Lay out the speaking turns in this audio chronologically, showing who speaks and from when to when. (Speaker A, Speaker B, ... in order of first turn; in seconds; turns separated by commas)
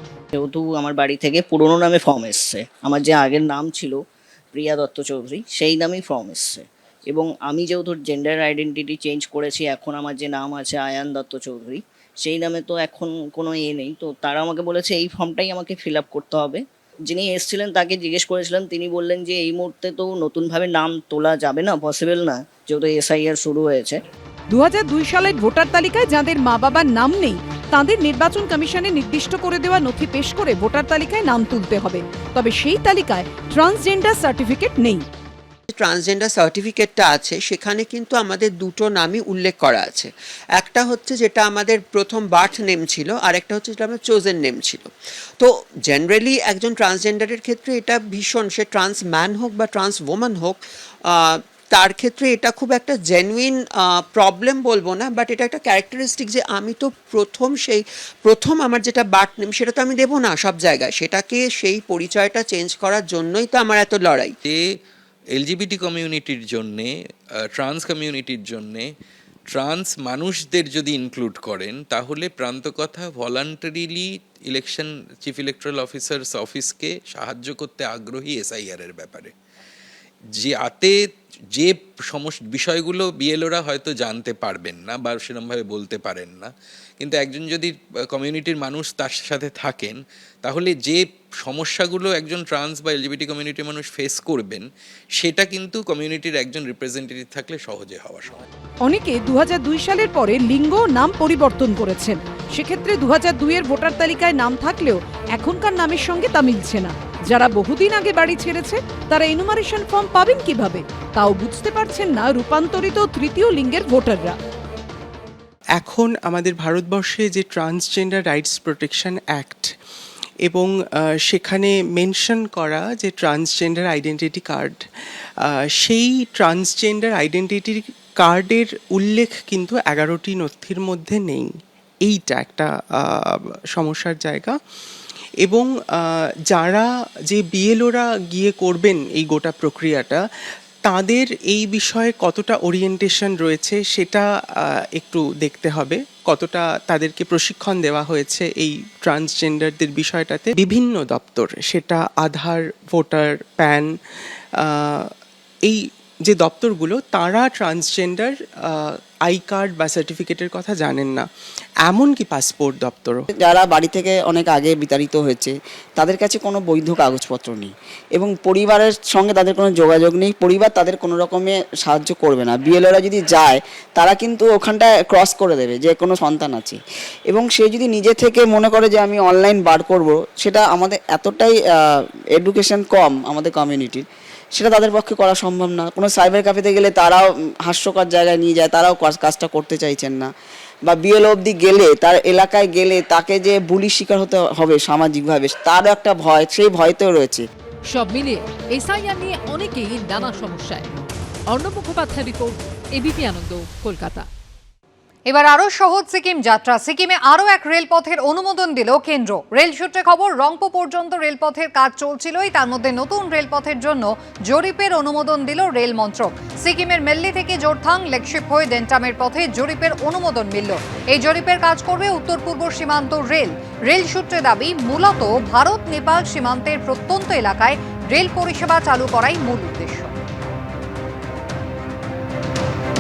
Speaker A: 0.3-24.0, Speaker B: 24.5-35.0, Speaker C: 35.7-64.3, Speaker D: 65.3-66.9, Speaker D: 67.5-68.9, Speaker D: 69.5-79.3, Speaker D: 80.4-80.9, Speaker D: 81.6-86.5, Speaker D: 87.0-94.7, Speaker D: 95.2-98.4, Speaker B: 98.8-114.4, Speaker E: 115.8-119.7, Speaker E: 121.3-124.8, Speaker E: 125.8-131.5, Speaker E: 132.1-134.5, Speaker E: 135.4-140.2, Speaker E: 140.9-144.2, Speaker E: 145.0-153.9, Speaker E: 154.8-155.1, Speaker E: 156.3-158.3, Speaker E: 159.3-161.3, Speaker E: 161.9-163.2, Speaker F: 163.4-176.8, Speaker F: 177.3-190.3, Speaker F: 190.9-197.4, Speaker G: 197.9-200.9, Speaker G: 201.5-204.3, Speaker H: 205.3-230.1